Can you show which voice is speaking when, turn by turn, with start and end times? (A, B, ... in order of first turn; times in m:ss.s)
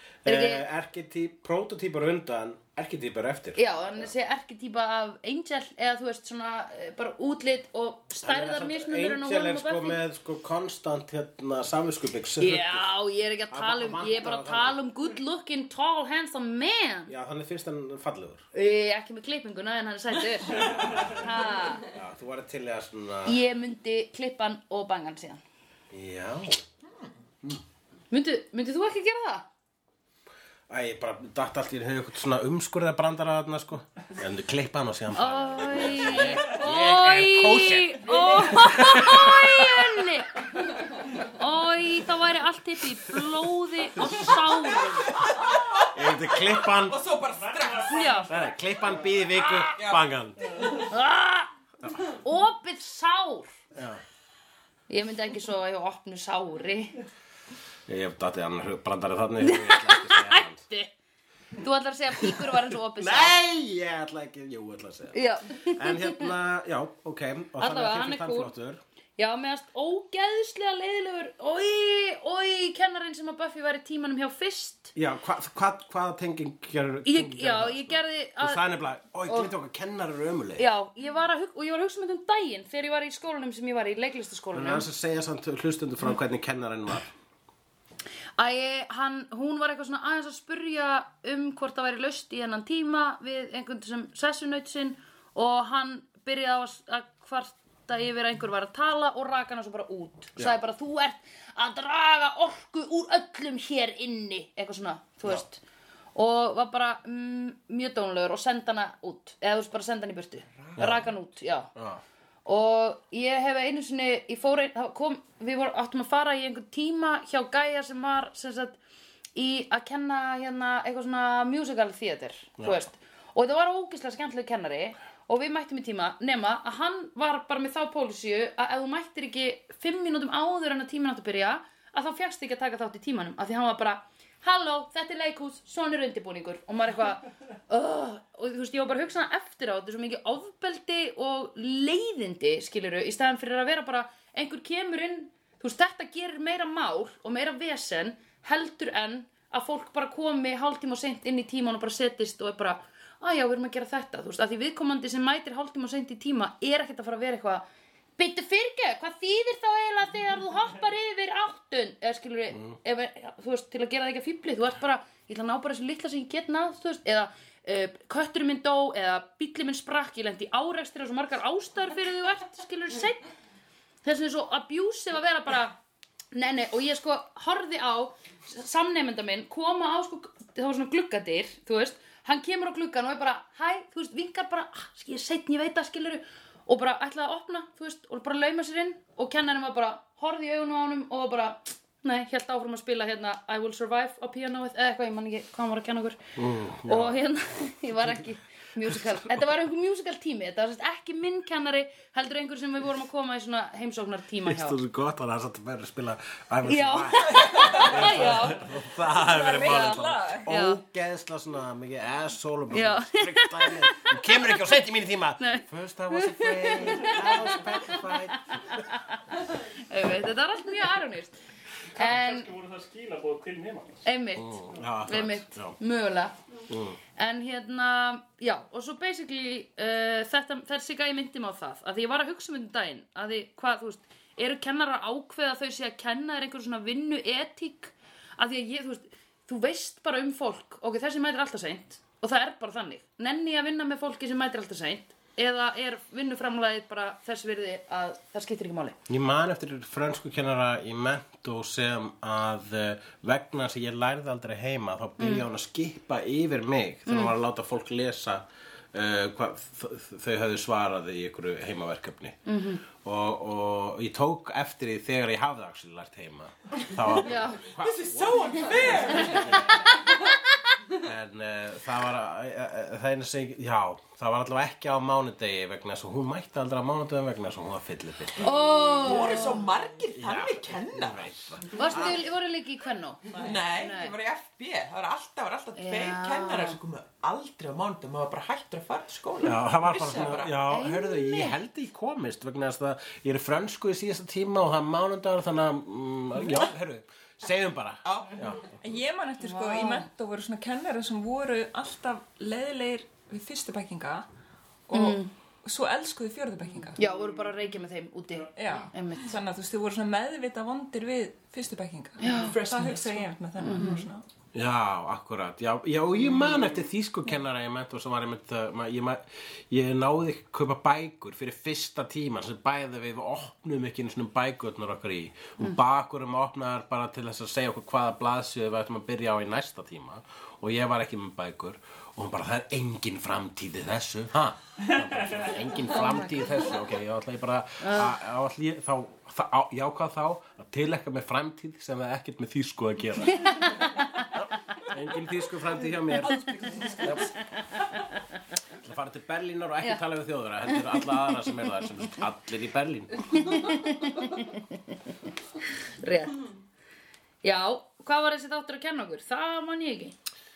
0:00.2-0:04.1 A
0:00.2-0:00.6 B
0:03.6-0:10.0 B
0:08.2-0:12.9 A
0:12.4-0:17.1 B
0:13.5-0:14.8 A
0:17.1-0:18.4 A
0:18.5-0:21.9 B
0:20.6-0:21.0 C
0:21.9-0:23.4 A
0:23.2-0:25.4 B
0:25.9-0:26.6 A
0:26.8-0:27.1 D
0:28.1-0:29.4 B
0:30.7-0:40.0 A
0:35.1-0:40.4 B
0:41.3-0:45.2 B
0:44.0-0:44.3 A
0:44.9-0:48.4 D
0:45.9-0:47.0 A
0:47.4-0:48.2 C
0:47.8-0:48.3 B
0:48.3-0:50.4 A
0:49.3-0:49.8 B
0:49.7-0:50.8 D
0:50.7-0:53.5 B
0:53.7-0:54.0 A
0:54.9-0:56.9 B
0:57.9-1:00.6 A
0:59.5-1:00.9 B
1:01.6-1:03.4 B
1:02.2-1:08.8 A
1:05.1-1:06.1 B
1:07.6-1:08.5 B
1:09.2-1:14.9 B
1:14.9-1:20.6 A
1:17.0-1:18.6 B
1:20.6-1:24.9 B
1:24.5-1:27.1 A
1:28.4-1:45.6 B
1:46.1-1:51.7 B
1:50.7-1:51.1 A
1:51.8-1:52.0 A
1:52.4-1:58.8 B
1:59.3-2:37.6 B
2:38.2-2:53.2 B
2:54.0-2:55.8 B
2:56.3-3:16.2 B
3:16.4-3:17.2 A
3:16.9-3:24.8 B
3:24.4-3:38.8 A
3:26.6-3:28.7 B
3:27.4-3:27.8 D
3:29.2-3:30.5 E
3:29.5-3:30.8 B
3:32.7-3:34.4 B
3:35.4-3:41.3 B
3:41.9-3:44.1 C
3:42.0-3:42.5 B
3:44.0-3:46.4 B
3:44.3-3:45.8 A
3:46.7-3:47.0 A
3:47.2-4:09.0 B
4:09.1-4:29.8 A
4:15.2-4:15.4 B
4:17.1-4:17.3 B
4:22.5-4:22.8 B
4:27.2-4:27.6 B
4:27.8-4:29.7 D
4:31.0-4:38.5 A
4:38.4-4:39.6 B
4:39.0-4:41.6 D
4:40.2-4:42.2 A
4:41.8-4:44.1 B
4:43.4-4:50.6 D
4:45.8-4:46.8 B
4:49.4-4:58.7 A
4:50.7-4:51.6 B
4:58.0-4:58.4 D
4:58.8-5:04.2 E
4:59.4-5:00.1 B
5:04.9-5:07.0 E
5:04.9-5:05.3 B
5:07.0-5:09.4 B
5:07.0-5:07.6 C
5:08.6-5:14.2 E
5:12.2-5:12.5 B
5:12.2-5:14.1 D
5:13.6-5:14.0 B
5:14.5-5:43.6 A
5:36.0-5:36.3 B
5:37.8-5:38.1 B
5:43.4-5:44.3 B
5:44.3-5:47.3 A
5:46.3-5:47.8 B
5:48.8-5:53.4 A
5:50.7-5:51.2 B
5:53.2-5:54.9 B
5:56.0-5:56.4 B
5:57.4-6:00.1 B